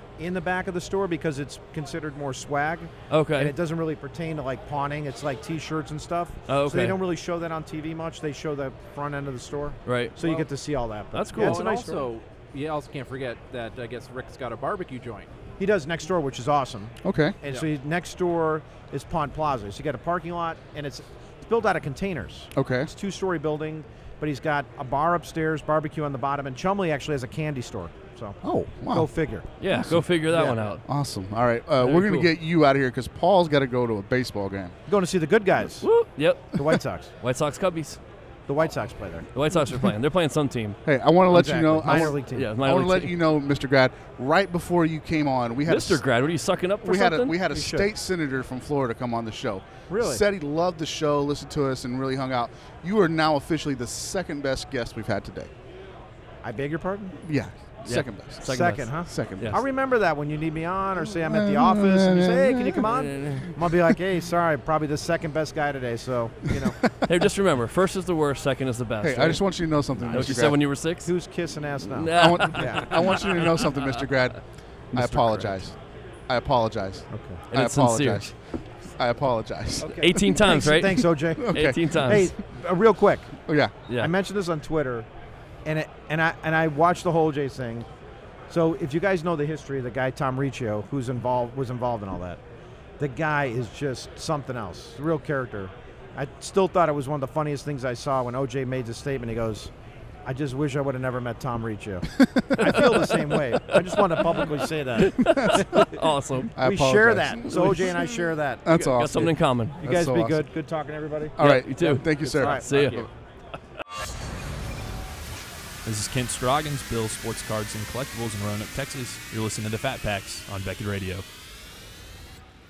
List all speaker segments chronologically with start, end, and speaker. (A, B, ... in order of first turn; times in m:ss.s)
0:00.2-0:12.1 A
0:03.1-0:03.6 B
0:06.5-0:07.0 B
0:09.9-0:10.2 B
0:10.2-0:10.5 C
0:11.1-0:11.7 B
0:11.3-0:15.3 C
0:15.6-0:29.5 A
0:17.0-0:17.4 D
0:22.6-0:22.9 D
0:28.4-0:29.1 D
0:29.6-0:30.8 B
0:29.7-0:30.1 D
0:30.3-0:30.8 A
0:30.8-0:34.8 D
0:31.8-0:32.3 B
0:34.9-0:35.9 A
0:35.8-0:38.0 B
0:36.6-0:37.1 A
0:38.5-0:39.3 A
0:39.3-0:40.8 B
0:40.8-0:46.0 D
0:41.3-0:42.5 A
0:41.9-0:43.2 B
0:45.7-0:47.4 B
0:46.8-0:55.5 D
0:47.4-0:47.9 A
0:49.9-0:50.2 A
0:56.4-0:57.2 A
0:57.2-0:58.5 D
0:57.8-0:59.6 B
0:58.4-1:06.8 A
0:59.1-0:59.6 D
1:01.0-1:02.8 D
1:02.8-1:03.5 B
1:06.6-1:07.0 D
1:07.0-1:11.1 B
1:09.0-1:10.6 D
1:10.1-1:10.5 A
1:11.0-1:13.3 A
1:11.9-1:13.9 B
1:12.2-1:14.4 D
1:14.9-1:15.7 D
1:15.0-1:15.6 B
1:16.3-1:18.3 D
1:17.1-1:17.4 A
1:17.5-1:18.3 B
1:19.0-1:20.4 D
1:19.8-1:23.4 A
1:19.8-1:22.3 B
1:21.4-1:22.3 D
1:23.5-1:23.7 D
1:24.0-1:25.1 A
1:25.6-1:27.9 A
1:28.5-1:32.4 A
1:33.0-1:39.7 A
1:40.3-1:45.8 A
1:42.2-1:42.8 D
1:42.6-1:43.0 B
1:44.2-1:46.5 B
1:45.2-1:45.9 D
1:46.6-1:48.1 D
1:46.6-1:48.8 A
1:47.5-1:47.9 B
1:48.6-1:50.4 D
1:48.7-1:49.8 B
1:49.8-1:52.8 A
1:51.4-1:53.1 D
1:51.4-1:53.1 B
1:52.7-1:53.1 C
1:55.8-2:01.2 E